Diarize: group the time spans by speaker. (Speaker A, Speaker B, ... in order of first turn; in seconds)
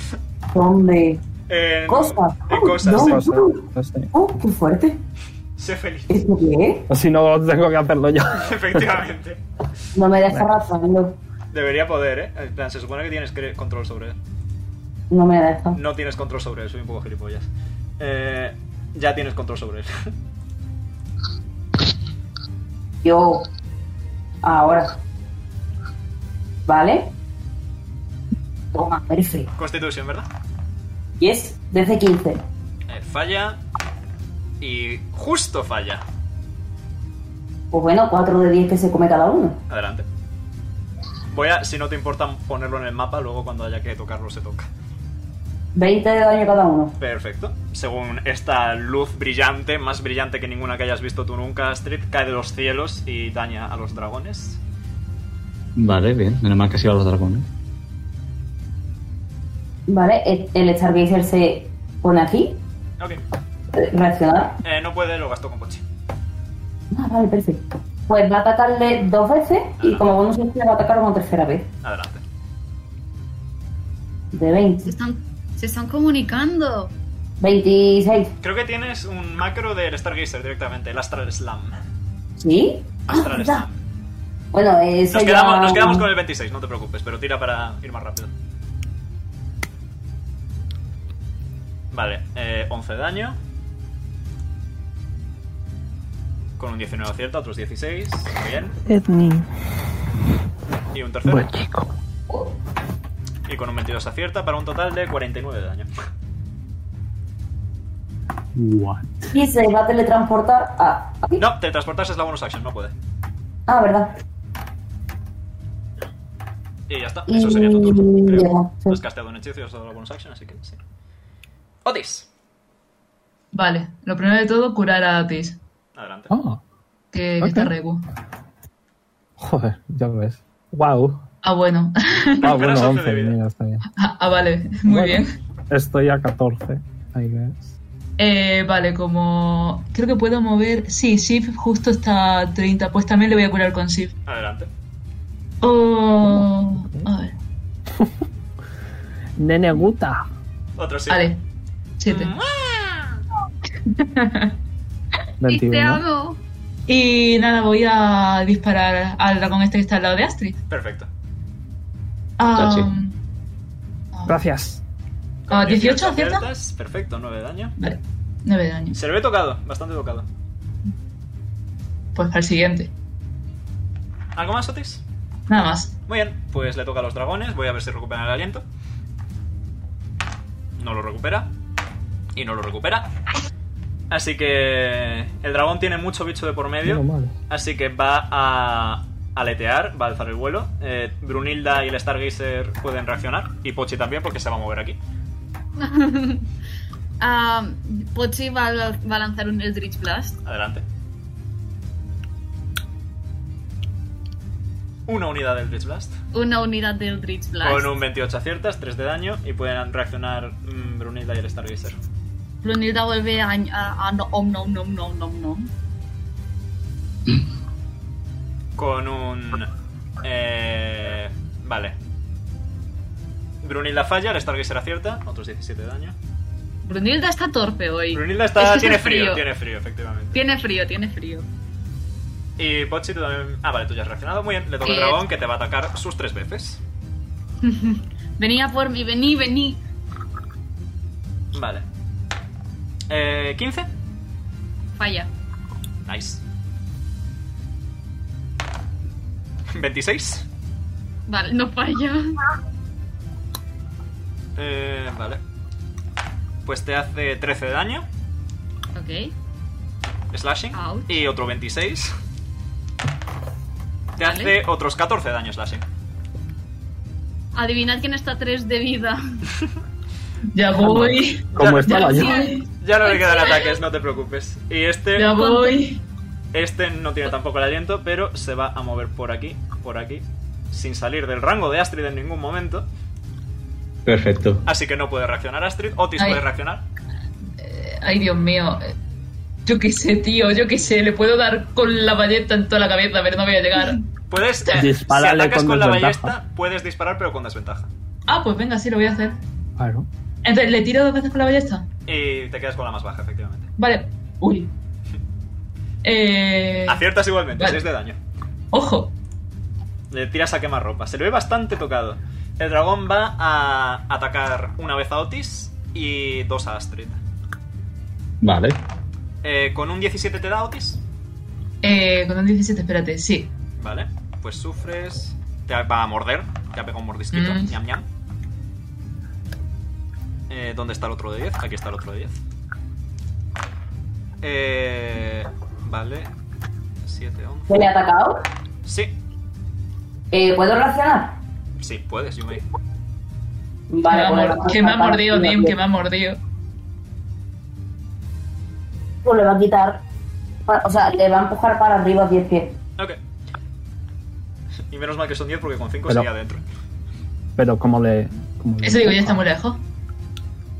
Speaker A: 0.5-1.2, 1.9-5.0, 6.1-6.9, 9.9-11.2, 15.1-15.8, 23.0-23.5, 24.4-24.9, 26.6-27.1, 28.7-29.5, 31.2-32.4, 37.7-39.6, 45.7-46.9, 59.9-62.6, 63.7-64.6, 66.9-71.7, 74.3-74.9, 77.4-78.3, 82.4-83.6, 84.5-86.1, 109.3-111.4, 113.7-114.1, 117.3-119.0, 337.7-338.4, 340.3-341.4, 343.9-345.7, 349.2-350.0, 350.7-352.8
Speaker B: 1.5-3.2, 5.6-6.1, 8.3-9.4, 11.5-14.2, 15.7-17.5, 18.0-19.9, 29.6-30.3, 32.9-33.6, 34.6-36.0, 39.7-40.0, 41.3-44.7, 47.0-54.6, 64.6-65.8, 69.8-70.1, 71.8-72.2, 78.4-81.8, 83.1-83.8, 85.1-88.3, 91.9-93.4, 96.6-98.8, 100.9-101.5, 103.5-105.9, 111.4-112.9, 116.9-120.8, 121.8-122.3, 125.9-126.3, 132.4-133.4, 144.2-144.7, 150.8-151.3, 152.1-153.1, 160.7-161.1, 165.5-167.8, 168.9-170.2, 174.3-175.0, 176.1-178.6, 180.8-181.5, 182.3-183.1, 184.1-195.0, 200.4-200.8, 205.1-206.2, 207.6-212.0, 218.8-219.7, 220.2-221.9, 223.6-226.2, 228.1-230.4, 232.6-236.8, 241.5-241.8, 243.1-243.9, 246.0-246.4, 249.7-250.4, 254.6-255.4, 256.6-258.1, 260.3-262.1, 264.2-265.8, 271.6-272.1, 272.8-275.4, 276.5-282.9, 284.6-286.8, 294.3-297.9, 302.1-303.7, 306.9-308.2, 310.1-317.2, 319.4-321.0, 323.8-328.1, 330.5-332.4, 334.4-336.3, 337.0-337.9, 338.8-339.1, 341.8-342.6, 354.9-356.6
Speaker C: 2.9-4.1, 6.9-8.8, 98.9-99.4, 101.3-101.7, 108.5-109.0, 126.3-126.6, 127.4-127.7, 129.4-131.2, 132.4-133.8, 134.8-137.6, 146.2-147.1, 149.4-150.2, 155.4-156.0, 164.3-164.8, 186.8-187.3, 270.8-272.3, 294.7-296.3, 299.8-300.1, 357.6-359.4
Speaker D: 55.8-57.5, 162.5-162.9, 284.1-284.6, 318.4-318.8
Speaker E: 74.8-76.9, 155.4-156.4, 195.8-196.4, 197.2-200.3, 206.3-207.9, 212.6-215.7, 226.8-229.4, 230.3-231.5, 234.8-235.2, 237.6-239.8, 244.9-245.3, 251.3-252.4, 258.9-259.3, 260.7-261.2, 264.2-264.6, 267.5-269.2, 271.9-273.8, 275.4-275.8
Speaker F: 123.5-125.6, 127.1-128.0, 131.4-132.5, 133.9-135.3, 138.2-144.1, 145.6-147.3, 151.1-151.4, 152.0-152.3, 153.8-154.5, 156.9-160.6, 162.4-163.1, 165.5-166.5, 167.8-169.0, 172.1-172.9, 175.5-175.9, 270.5-272.6, 275.1-276.0, 287.6-288.9, 289.6-294.0, 298.3-299.4, 300.4-301.8, 303.8-304.7, 306.0-307.0, 307.6-307.8, 308.7-309.1, 321.8-323.5, 327.3-327.7, 344.1-346.4, 358.8-359.8